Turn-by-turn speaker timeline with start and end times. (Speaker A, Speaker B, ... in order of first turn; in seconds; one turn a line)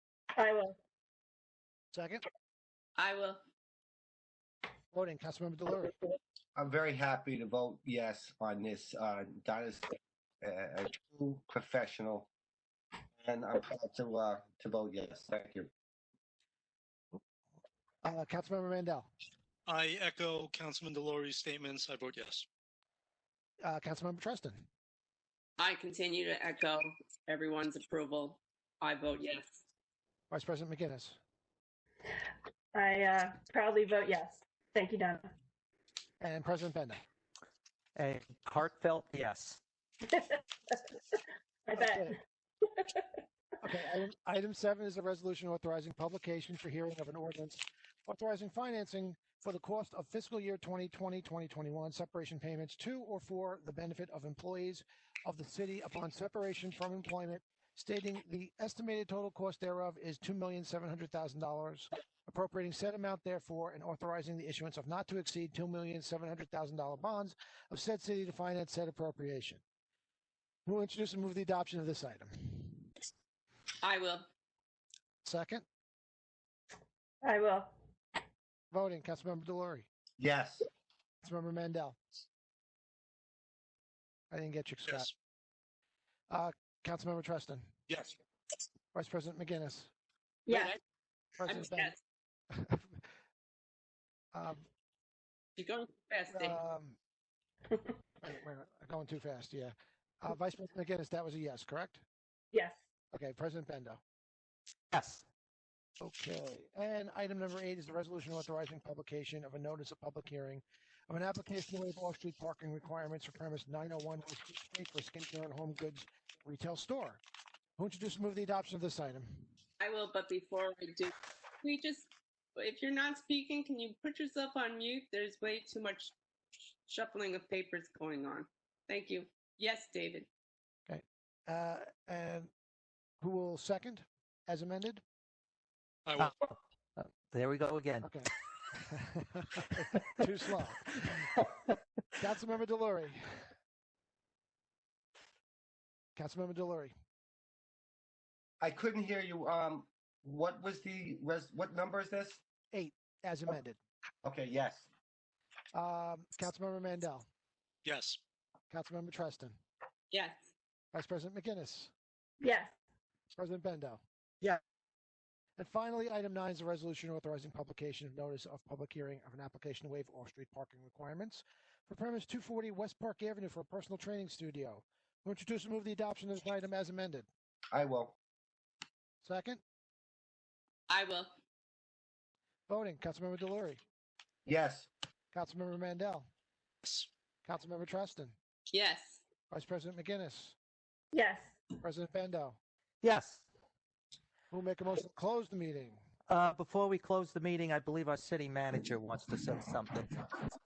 Speaker A: 0.4-0.8
Speaker B: 1.9-2.2
Speaker C: 3.0-3.4
Speaker B: 4.9-5.9
Speaker D: 6.6-12.3
Speaker D: 13.2-15.7
Speaker B: 18.0-19.1
Speaker E: 19.7-22.5
Speaker B: 23.6-24.7
Speaker C: 25.6-29.6
Speaker B: 30.3-31.2
Speaker A: 32.7-35.3
Speaker B: 36.2-37.0
Speaker F: 38.0-39.6
Speaker A: 40.1-40.7
Speaker A: 41.7-42.2
Speaker B: 41.8-42.2
Speaker B: 43.6-69.6
Speaker B: 70.7-72.8
Speaker C: 73.8-74.3
Speaker B: 75.2-75.7
Speaker A: 77.2-77.7
Speaker B: 78.7-79.9
Speaker D: 80.2-80.7
Speaker B: 81.2-82.0
Speaker B: 84.3-85.1
Speaker E: 84.9-85.1
Speaker B: 86.3-87.7
Speaker E: 87.9-88.2
Speaker B: 88.9-89.9
Speaker A: 90.5-90.8
Speaker B: 91.4-91.9
Speaker C: 91.5-92.0
Speaker B: 92.5-93.0
Speaker B: 94.3-94.7
Speaker C: 95.6-96.6
Speaker B: 96.3-97.0
Speaker B: 98.2-102.0
Speaker A: 102.5-102.8
Speaker B: 103.1-104.0
Speaker F: 104.9-105.2
Speaker B: 106.0-117.2
Speaker B: 117.8-119.5
Speaker C: 119.8-126.1
Speaker C: 126.9-130.3
Speaker B: 130.9-132.5
Speaker B: 133.2-135.0
Speaker E: 136.1-136.3
Speaker F: 136.2-138.1
Speaker B: 138.0-141.3
Speaker B: 142.2-143.3
Speaker B: 146.2-146.9
Speaker D: 148.6-152.4
Speaker B: 152.7-153.8
Speaker D: 154.2-154.9
Speaker B: 155.7-157.3
Speaker E: 157.8-158.2
Speaker B: 158.7-159.6
Speaker C: 160.1-160.4
Speaker B: 160.9-161.9
Speaker A: 162.4-162.7
Speaker B: 163.4-164.6
Speaker B: 165.6-177.3
Speaker D: 177.7-178.2
Speaker B: 179.2-179.6
Speaker C: 180.9-181.3
Speaker B: 182.7-183.8
Speaker D: 184.5-184.9
Speaker B: 185.3-186.3
Speaker E: 186.8-187.1
Speaker B: 187.4-188.4
Speaker C: 188.7-189.2
Speaker B: 189.5-190.6
Speaker A: 191.1-191.6
Speaker B: 191.8-192.6
Speaker F: 193.0-193.4
Speaker B: 194.5-196.0
Speaker F: 196.3-200.4